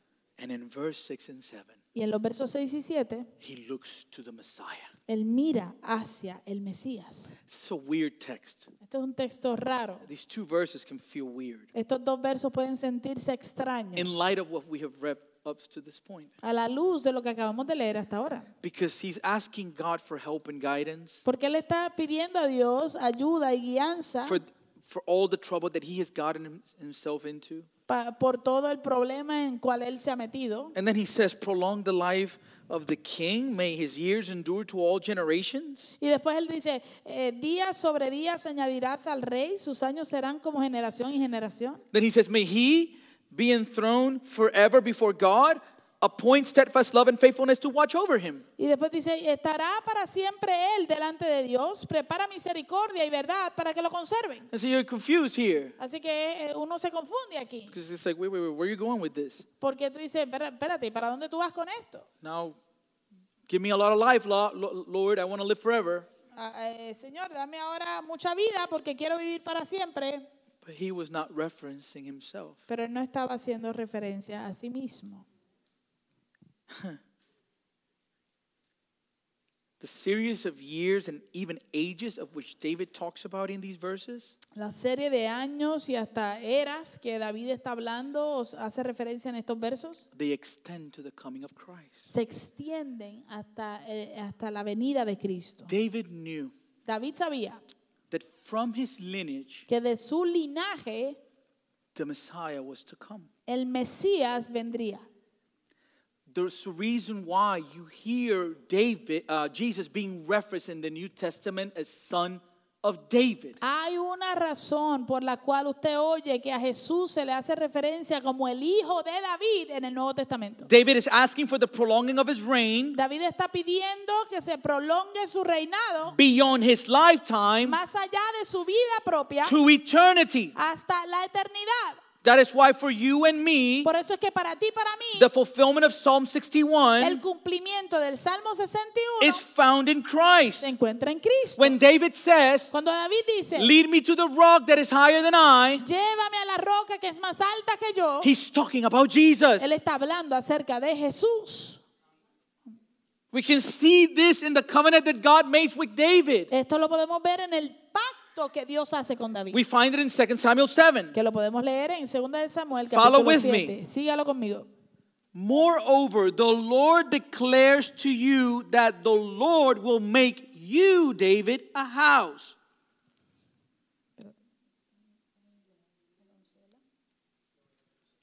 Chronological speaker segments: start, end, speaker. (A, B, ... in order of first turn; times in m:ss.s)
0:00.4-0:01.8 A
0:01.9-0:03.3 B
0:03.4-0:04.9 A
0:05.1-0:07.4 B
0:07.4-0:08.7 A
0:08.8-0:10.1 B
0:10.0-0:11.7 A
0:11.7-0:14.3 B
0:14.0-0:16.3 A
0:16.4-0:18.5 B
0:18.6-0:21.2 A
0:21.2-0:24.4 B
0:24.2-0:27.7 A
0:27.9-0:30.8 B
0:30.8-0:35.9 A
0:36.0-0:41.8 B
0:41.9-0:48.4 A
0:48.6-0:54.5 B
0:54.5-0:55.8 A
0:55.8-0:57.8 B
0:57.7-0:59.5 A
0:59.6-1:02.1 B
1:02.2-1:02.6 A
1:03.5-1:06.1 A
1:06.3-1:10.3 B
1:10.6-1:12.6 A
1:12.7-1:15.3 B
1:16.7-1:17.0 A
1:19.8-1:24.4 A
1:24.5-1:30.1 B
1:30.1-1:32.1 A
1:32.1-1:35.7 B
1:35.7-1:36.5 A
1:36.9-1:37.6 B
1:38.1-1:39.7 A
1:39.7-1:41.2 B
1:41.9-1:43.3 A
1:43.5-1:45.0 B
1:46.3-1:53.6 A
1:53.6-2:00.7 B
2:00.7-2:03.0 A
2:02.9-2:06.2 B
2:06.1-2:07.8 A
2:07.6-2:09.6 B
2:09.4-2:10.6 A
2:10.6-2:12.0 B
2:12.2-2:13.9 A
2:13.8-2:15.3 B
2:15.2-2:17.2 A
2:17.0-2:19.4 B
2:19.2-2:20.7 A
2:20.6-2:21.8 B
2:21.6-2:22.7 A
2:22.7-2:23.7 B
2:23.6-2:25.9 A
2:25.8-2:28.3 B
2:28.2-2:29.7 A
2:29.6-2:31.8 B
2:33.3-2:36.5 A
2:36.5-2:39.6 B
2:39.5-2:41.2 A
2:41.1-2:44.7 B
2:42.9-2:43.8 A
2:45.3-2:52.6 A
2:56.3-2:56.8 B